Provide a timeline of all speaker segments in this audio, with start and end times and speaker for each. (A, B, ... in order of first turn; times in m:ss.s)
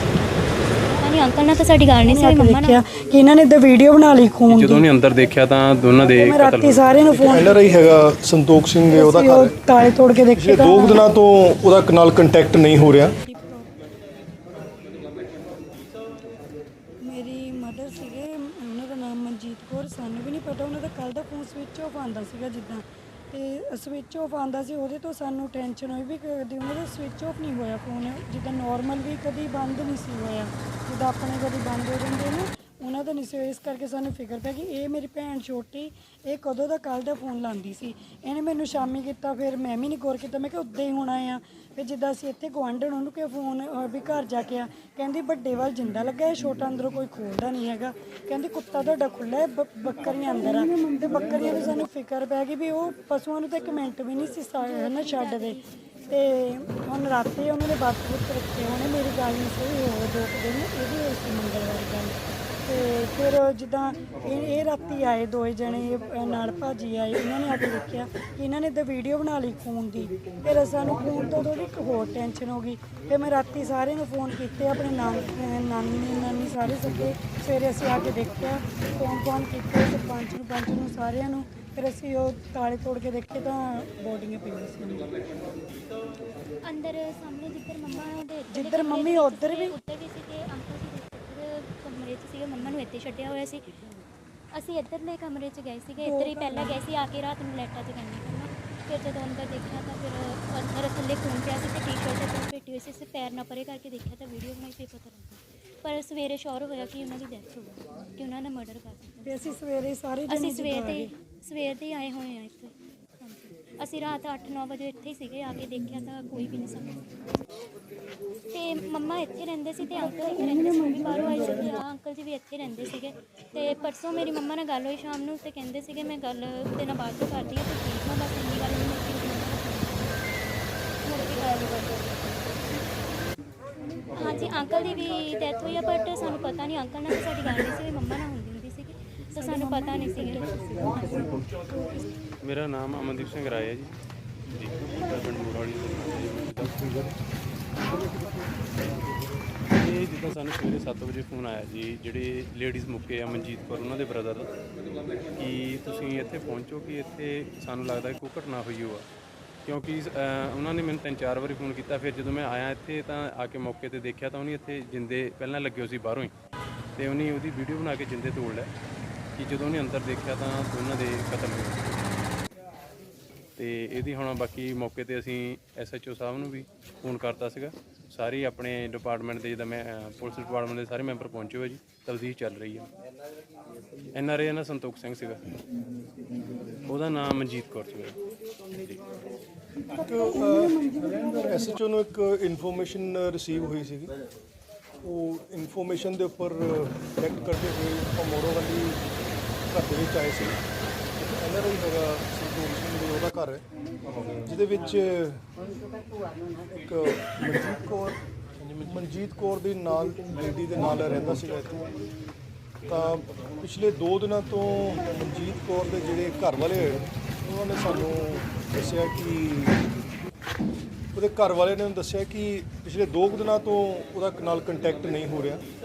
0:00.8-0:02.8 A
0:02.0-0:04.9 B
0:04.5-0:06.9 C
0:06.1-0:07.6 B
0:07.1-0:09.6 D
0:08.9-0:11.1 B
0:10.4-0:13.2 D
0:13.2-0:13.7 B
0:17.0-1:25.1 B
0:54.6-0:55.9 A
1:26.6-1:33.8 A
1:28.5-1:29.7 B
1:34.5-1:49.5 A
1:36.0-1:36.8 B
1:49.2-1:51.1 B
1:50.3-1:57.1 A
1:58.5-2:10.4 A
2:11.0-2:12.0 A
2:14.2-2:21.4 A
2:19.5-2:20.4 B
2:21.7-2:22.0 B
2:22.4-2:24.0 C
2:24.5-2:27.1 C
2:29.7-2:34.5 C
2:35.4-2:39.1 C
2:39.6-2:46.3 C
2:47.0-2:48.7 C
2:49.4-2:52.2 C
2:53.6-3:02.9 C
3:04.1-3:05.4 C
3:06.9-3:08.2 C
3:10.0-3:14.1 D
3:15.0-3:19.0 D
3:19.7-3:23.6 D
3:24.4-3:25.4 D
3:26.8-3:28.2 D
3:28.8-3:31.8 D
3:32.9-3:39.8 D
3:41.1-3:45.6 D